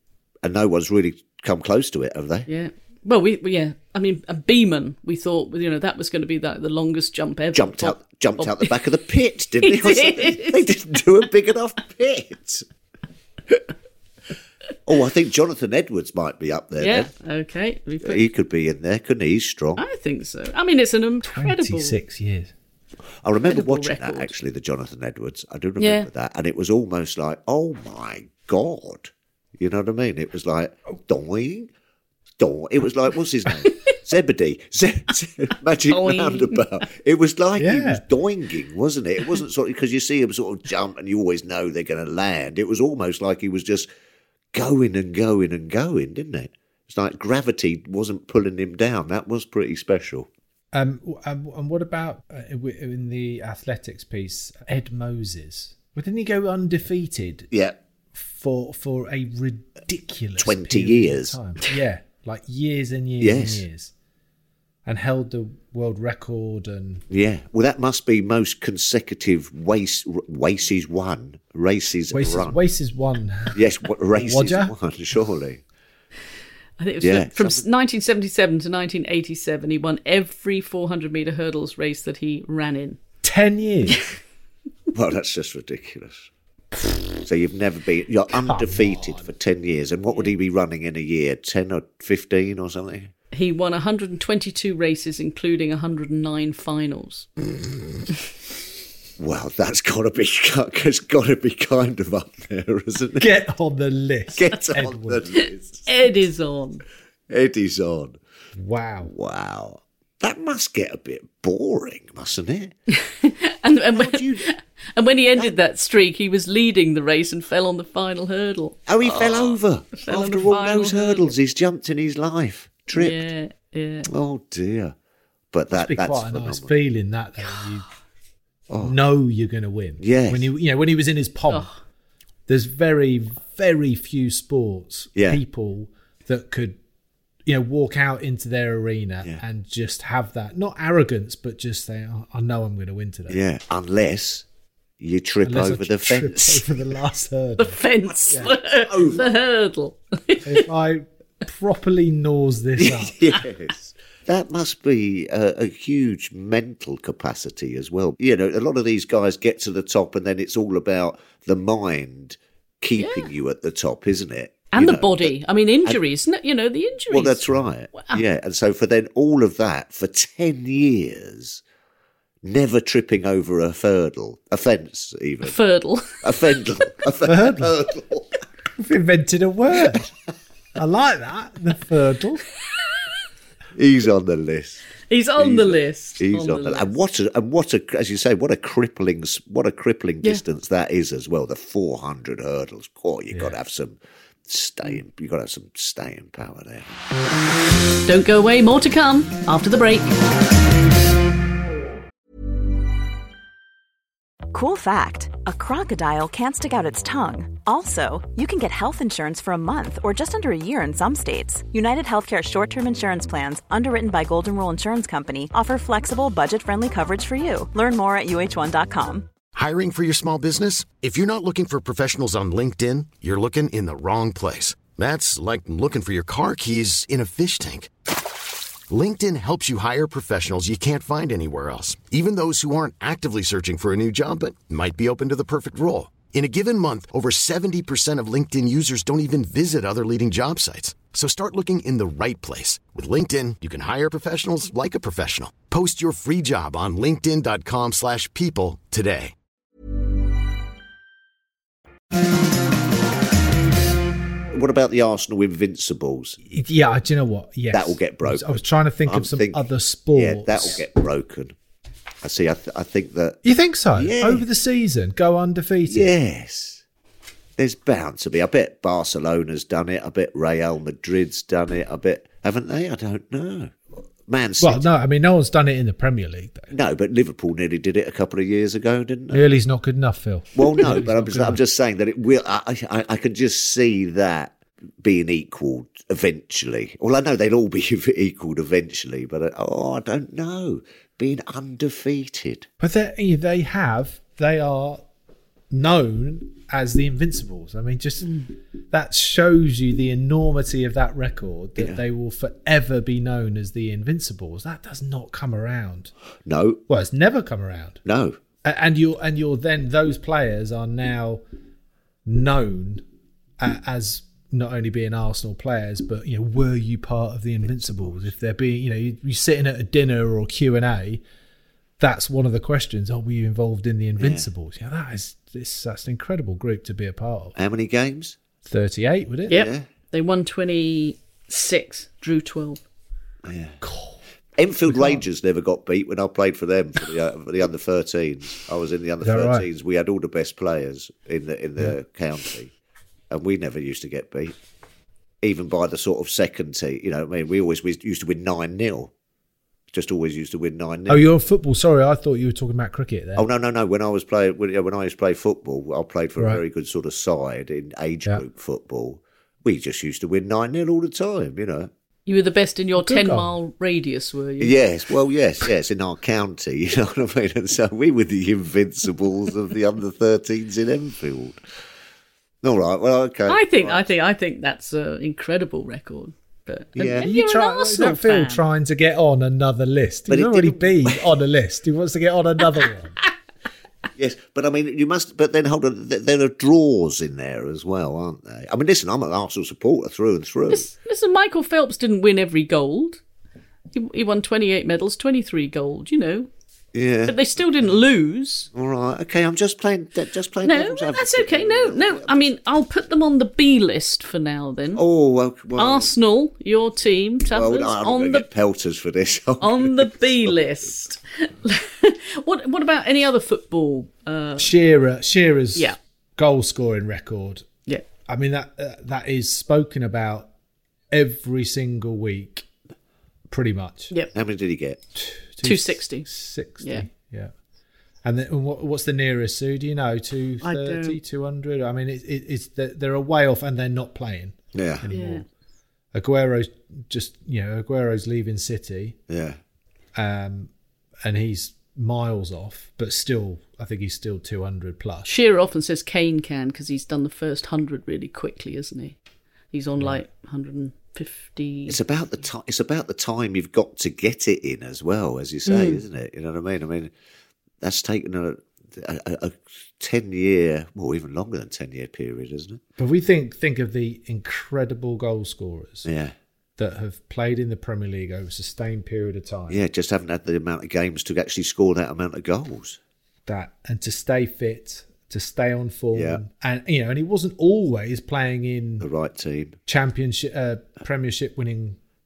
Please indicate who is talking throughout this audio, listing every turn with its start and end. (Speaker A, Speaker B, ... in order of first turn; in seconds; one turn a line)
Speaker A: 0.4-2.5
Speaker B: 2.5-8.7
Speaker A: 7.5-12.6
Speaker B: 9.6-10.7
Speaker A: 14.8-17.1
Speaker B: 16.8-18.3
Speaker A: 18.0-19.8
Speaker B: 19.8-21.9
Speaker C: 21.2-22.5
Speaker A: 23.2-31.7
Speaker B: 23.5-24.3
Speaker B: 25.8-26.1
Speaker A: 32.4-43.9
Speaker B: 35.9-36.6
Speaker C: 37.6-38.0
Speaker A: 44.5-50.3
Speaker C: 50.7-57.5
Speaker A: 57.5-57.8
Speaker C: 58.1-63.9
Speaker A: 60.4-61.4
Speaker A: 63.2-63.6
Speaker C: 64.8-67.0
Speaker A: 67.1-72.6
Speaker C: 72.1-73.6
Speaker A: 73.5-75.6
Speaker C: 74.1-74.7
Speaker B: 76.8-83.0
Speaker A: 77.0-77.6
Speaker C: 83.2-84.0
Speaker A: 84.9-86.3
Speaker A: 87.2-93.1
Speaker C: 88.4-89.3
Speaker B: 93.3-97.3
Speaker A: 99.2-103.3
Speaker C: 103.2-105.2
Speaker A: 104.3-105.9
Speaker B: 105.8-106.8
Speaker A: 107.3-108.2
Speaker C: 108.5-109.1
Speaker A: 109.0-112.7
Speaker B: 113.0-121.3
Speaker A: 113.9-114.5
Speaker A: 118.9-123.2
Speaker B: 122.9-124.1
Speaker A: 124.1-124.9
Speaker A: 125.5-126.7
Speaker C: 125.7-127.8
Speaker A: 128.7-128.9
Speaker C: 128.8-131.7
Speaker A: 130.0-130.5
Speaker B: 131.5-131.7
Speaker C: 132.5-136.8
Speaker A: 135.2-135.4
Speaker C: 137.4-143.4
Speaker A: 143.3-144.4
Speaker A: 145.0-146.7
Speaker C: 145.4-147.8
Speaker B: 147.6-150.6
Speaker A: 148.8-149.2
Speaker C: 150.4-153.2
Speaker A: 152.8-165.3
Speaker B: 163.0-163.3
Speaker B: 164.7-168.2
Speaker A: 167.1-171.6
Speaker A: 172.4-175.5
Speaker B: 175.4-176.2
Speaker A: 176.2-178.4
Speaker C: 177.2-177.7
Speaker C: 178.8-180.1
Speaker C: 180.7-182.4
Speaker A: 183.7-197.0
Speaker B: 185.1-186.9
Speaker B: 198.1-200.2
Speaker D: 204.5-219.3
Speaker E: 219.5-227.9
Speaker E: 228.9-249.3
Speaker A: 254.5-256.4
Speaker C: 256.5-260.8
Speaker A: 257.7-259.6
Speaker A: 260.1-261.5
Speaker A: 262.2-263.4
Speaker C: 263.4-266.1
Speaker A: 263.9-264.4
Speaker A: 265.9-266.8
Speaker A: 267.6-274.8
Speaker C: 274.6-276.7
Speaker A: 276.7-279.4
Speaker C: 279.3-281.6
Speaker A: 280.5-292.7
Speaker C: 292.8-295.0
Speaker C: 295.7-306.1
Speaker A: 306.4-306.8
Speaker C: 306.9-308.0
Speaker A: 308.0-308.4
Speaker C: 308.6-311.4
Speaker C: 312.2-313.0
Speaker C: 313.6-321.2
Speaker C: 322.0-327.5
Speaker A: 324.2-324.4
Speaker A: 327.6-328.4
Speaker C: 328.6-329.6
Speaker B: 329.5-332.8
Speaker A: 329.5-329.8
Speaker A: 333.4-333.8
Speaker C: 333.8-334.2
Speaker A: 334.6-342.7
Speaker C: 334.9-335.2
Speaker C: 339.2-339.7
Speaker A: 343.3-344.6
Speaker A: 345.4-349.1
Speaker A: 349.9-351.3
Speaker C: 351.1-353.4
Speaker A: 353.4-361.9
Speaker B: 362.2-364.7
Speaker C: 363.0-363.5
Speaker A: 364.6-371.6
Speaker A: 372.6-374.0
Speaker B: 373.5-378.6
Speaker A: 376.9-377.3
Speaker C: 377.2-383.2
Speaker A: 380.3-381.2
Speaker A: 384.1-390.9
Speaker B: 390.7-393.2
Speaker B: 393.9-396.5
Speaker A: 396.9-397.4
Speaker B: 397.2-398.7
Speaker A: 398.7-402.4
Speaker B: 400.6-405.0
Speaker A: 404.9-406.1
Speaker B: 405.8-408.4
Speaker A: 407.5-410.5
Speaker B: 409.6-414.7
Speaker C: 414.6-417.7
Speaker C: 418.2-420.5
Speaker C: 421.1-422.6
Speaker C: 423.5-424.1
Speaker A: 424.3-425.0
Speaker C: 425.1-427.5
Speaker B: 425.6-426.3
Speaker C: 428.2-435.4
Speaker B: 430.6-431.2
Speaker A: 434.7-435.1
Speaker B: 435.1-435.4
Speaker C: 436.1-439.2
Speaker A: 439.3-439.6
Speaker C: 440.1-440.7
Speaker C: 441.2-445.3
Speaker B: 445.2-449.2
Speaker B: 449.7-452.0
Speaker A: 451.9-457.1
Speaker B: 455.6-456.0
Speaker A: 457.8-462.8
Speaker C: 463.0-466.1
Speaker A: 466.1-466.3
Speaker C: 466.8-469.8
Speaker A: 469.7-473.0
Speaker C: 473.4-479.1
Speaker A: 476.1-476.4
Speaker A: 479.0-479.8
Speaker C: 479.9-482.0